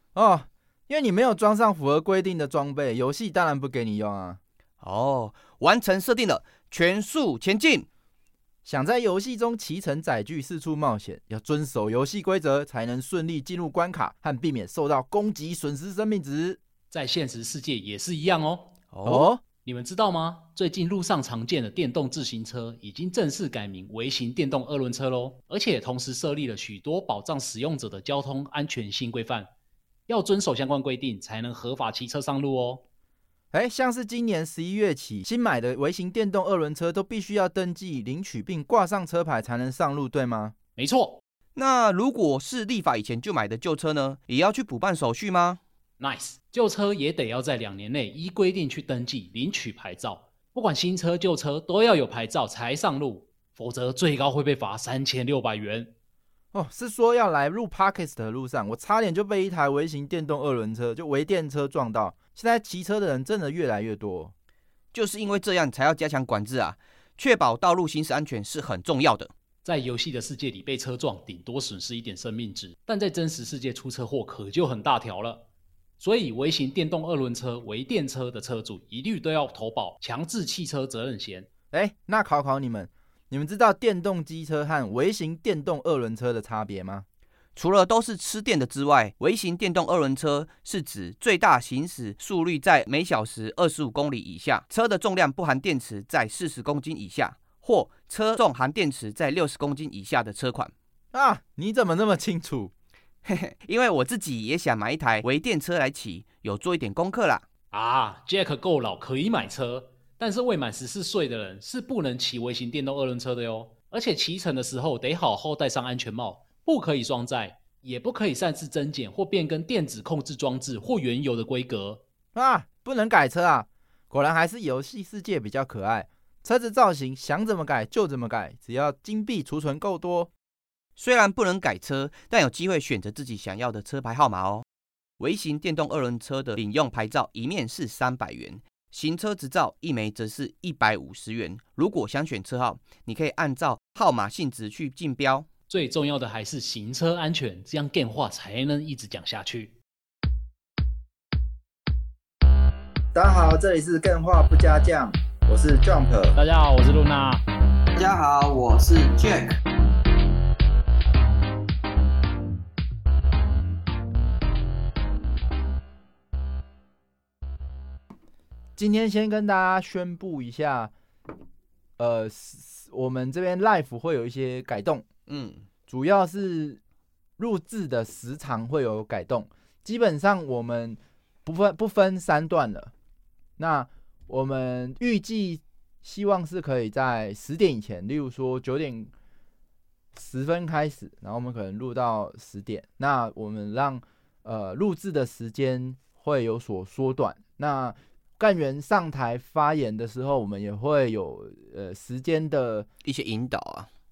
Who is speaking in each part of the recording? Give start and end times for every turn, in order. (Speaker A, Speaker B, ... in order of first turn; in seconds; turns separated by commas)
Speaker A: 0.1-4.4, Speaker B: 4.8-7.9, Speaker A: 8.6-16.6, Speaker C: 16.9-18.7, Speaker B: 18.9-19.3, Speaker A: 19.0-19.4, Speaker C: 19.6-29.5, Speaker C: 30.1-32.8, Speaker A: 33.5-40.5, Speaker C: 40.8-41.2, Speaker B: 41.5-45.6, Speaker C: 46.0-55.9, Speaker A: 56.5-64.3, Speaker B: 64.9-69.3, Speaker C: 69.6-75.5, Speaker C: 76.0-81.5, Speaker A: 81.7-87.0, Speaker B: 87.5-100.7, Speaker A: 101.1-102.7, Speaker B: 103.2-107.4, Speaker C: 107.7-122.0, Speaker A: 122.3-130.3, Speaker B: 131.0-134.6, Speaker B: 135.2-145.5, Speaker C: 145.7-149.8, Speaker A: 153.1-156.4, Speaker C: 156.3-157.4, Speaker B: 157.9-159.5, Speaker A: 168.8-170.9, Speaker A: 172.0-175.1, Speaker B: 175.3-175.7, Speaker A: 175.9-176.8, Speaker A: 177.4-182.9, Speaker A: 183.6-189.1, Speaker A: 190.1-202.9, Speaker B: 203.0-203.9